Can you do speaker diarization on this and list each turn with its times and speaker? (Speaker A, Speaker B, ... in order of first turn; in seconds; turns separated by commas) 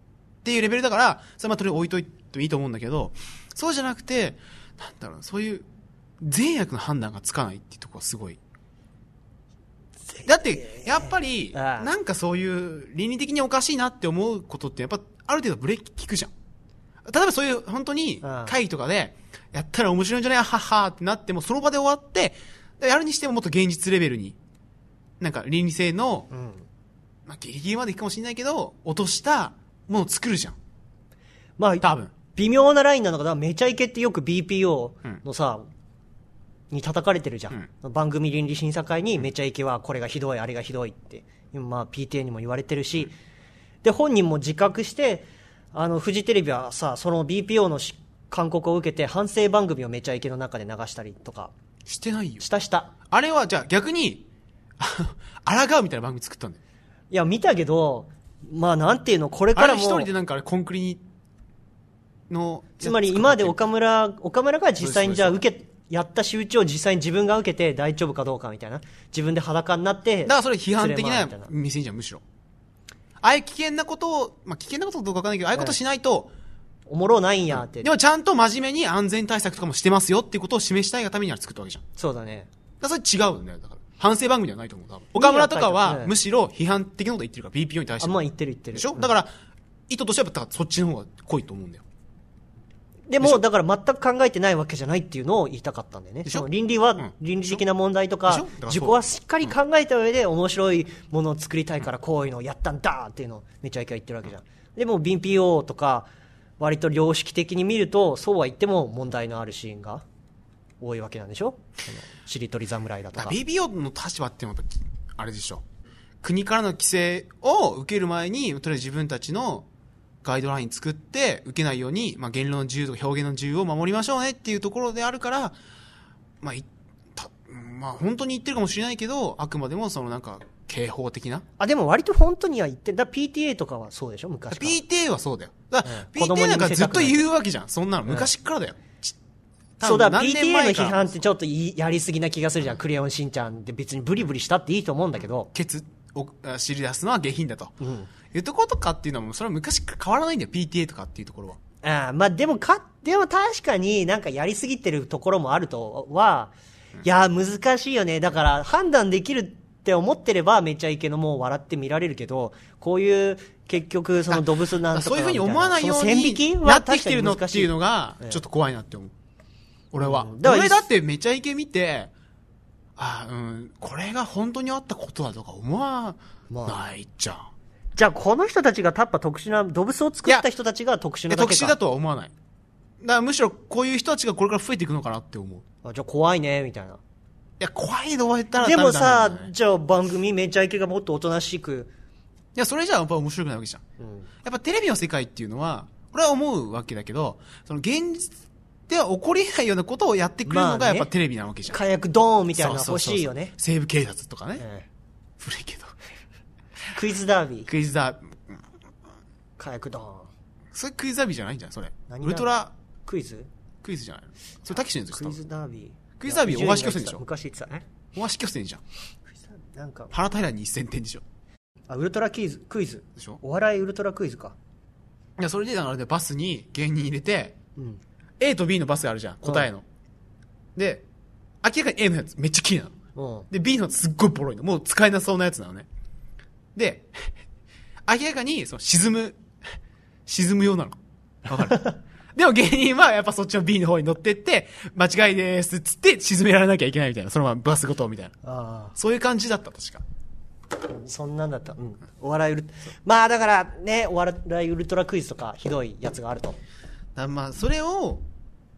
Speaker A: 0.4-5.7, Speaker A: 6.2-8.4, Speaker B: 10.1-11.9, Speaker A: 10.2-16.3, Speaker A: 17.1-24.4, Speaker B: 18.2-18.5, Speaker A: 25.2-26.3, Speaker B: 26.3-26.7, Speaker A: 27.3-30.6, Speaker B: 31.6-35.6, Speaker A: 31.8-32.1, Speaker B: 36.7-43.1, Speaker B: 43.8-51.5, Speaker A: 51.9-52.4, Speaker B: 52.4-52.9, Speaker A: 53.0-54.3, Speaker A: 54.8-56.6, Speaker B: 57.1-60.1, Speaker A: 59.5-61.0, Speaker A: 62.3-63.6, Speaker B: 62.8-71.5, Speaker A: 64.8-65.4, Speaker A: 70.2-72.2, Speaker A: 73.2-76.3, Speaker B: 76.9-77.9, Speaker A: 77.5-81.8, Speaker B: 82.0-82.5, Speaker A: 82.8-88.2, Speaker B: 85.1-86.1, Speaker B: 88.0-89.1, Speaker A: 88.7-89.3, Speaker A: 89.9-91.8, Speaker B: 93.1-110.0, Speaker A: 97.0-97.6, Speaker A: 98.3-99.5, Speaker B: 110.8-113.3, Speaker A: 113.1-115.6, Speaker A: 116.2-119.7, Speaker A: 120.2-125.5, Speaker A: 126.4-131.4, Speaker B: 131.6-134.8, Speaker A: 134.5-139.2, Speaker B: 135.8-137.2, Speaker A: 139.8-141.2, Speaker B: 139.8-145.5, Speaker A: 145.5-147.7, Speaker B: 147.8-148.1, Speaker A: 148.3-151.6, Speaker B: 151.8-168.4, Speaker A: 164.3-169.1, Speaker A: 169.9-172.1, Speaker B: 170.0-170.8, Speaker A: 173.0-177.5, Speaker B: 176.5-176.8, Speaker B: 177.9-181.8, Speaker A: 181.3-182.3, Speaker A: 183.0-185.6, Speaker B: 185.8-187.0, Speaker A: 187.6-189.5, Speaker B: 188.6-191.9, Speaker A: 192.5-193.8, Speaker B: 194.0-194.3, Speaker A: 194.4-198.3, Speaker A: 198.9-201.8, Speaker B: 200.4-201.1, Speaker B: 201.7-203.5, Speaker A: 202.5-204.6, Speaker B: 204.6-204.9, Speaker A: 205.4-205.9, Speaker B: 206.9-207.7, Speaker A: 207.7-208.6, Speaker B: 209.6-210.3, Speaker A: 210.7-212.7, Speaker B: 212.1-212.5, Speaker B: 213.1-213.5, Speaker A: 213.8-215.4, Speaker B: 215.1-217.8, Speaker A: 216.2-217.2, Speaker A: 218.1-218.8, Speaker B: 219.3-220.1, Speaker A: 220.1-221.2, Speaker B: 221.9-224.6, Speaker A: 223.2-223.4, Speaker A: 225.4-227.6, Speaker B: 227.8-228.0, Speaker A: 228.4-229.8, Speaker A: 230.8-231.0, Speaker A: 231.6-232.9, Speaker B: 233.2-233.5, Speaker A: 233.5-235.9, Speaker A: 236.8-237.1, Speaker A: 238.1-239.4, Speaker A: 240.3-248.3, Speaker B: 248.4-248.9, Speaker A: 248.9-250.0, Speaker B: 250.8-256.6, Speaker A: 257.1-258.2